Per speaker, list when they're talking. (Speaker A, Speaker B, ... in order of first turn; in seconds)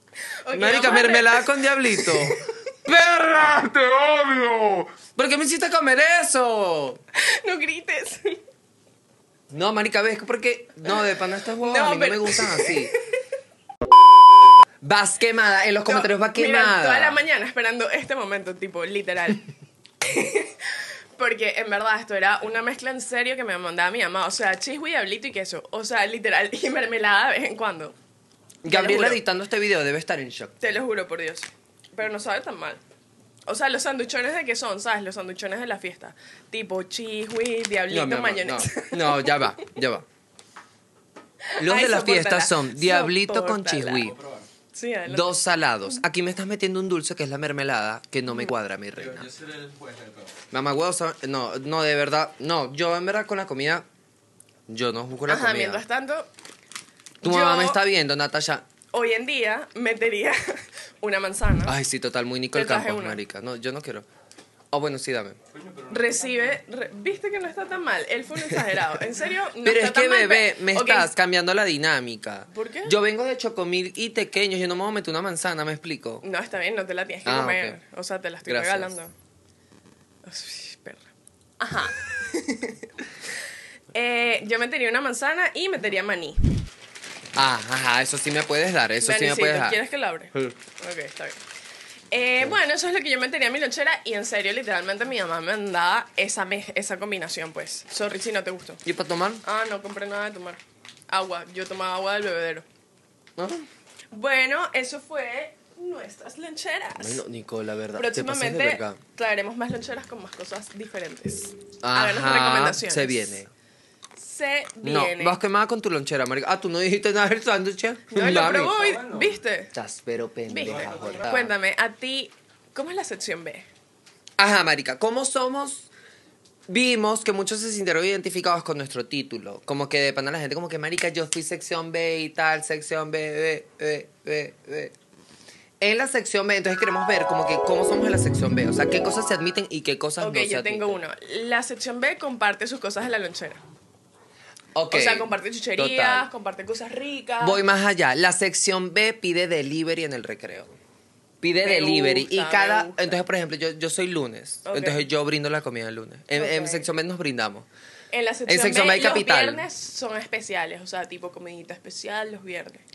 Speaker A: 0.4-2.4, 7.1-8.4, 11.6-13.0, 15.9-19.5, 20.0-27.9, 28.7-29.2, 30.6-32.8, 33.5-39.5, 41.4-44.1, 44.7-45.3, 55.3-56.3, 57.2-57.8, 58.9-61.8, 62.5-63.2, 65.9-71.1, 72.5-73.0, 76.2-79.1, 80.2-81.1, 81.6-82.9, 83.9-86.7, 89.0-91.4, 92.1-98.8, 99.4-102.7, 104.1-107.2, 108.0-113.4, 114.2-115.4, 118.1-119.7, 120.5-123.7, 140.2-143.6, 144.9-147.6, 151.6-153.2, 154.7-155.1, 156.3-156.9, 158.1-162.8
Speaker B: 0.5-7.0, 9.5-12.9, 14.8-17.2, 28.6-30.6, 37.9-40.1, 41.6-44.2, 45.1-49.3, 50.5-53.9, 54.7-55.8, 57.2-58.7, 61.7-64.1, 64.7-65.4, 68.5-68.8, 69.6-76.2, 77.3-77.8, 78.5-78.9, 87.3-89.8, 98.8-99.4, 103.4-103.7, 107.0-109.0, 111.8-113.5, 114.8-118.8, 119.7-121.5, 124.4-125.9, 126.7-134.9, 135.8-141.0, 144.8-146.3, 147.4-150.8, 151.4-157.7, 158.5-159.7
Speaker C: 44.0-44.5, 48.9-50.4, 65.5-66.6, 118.3-119.4, 120.6-121.3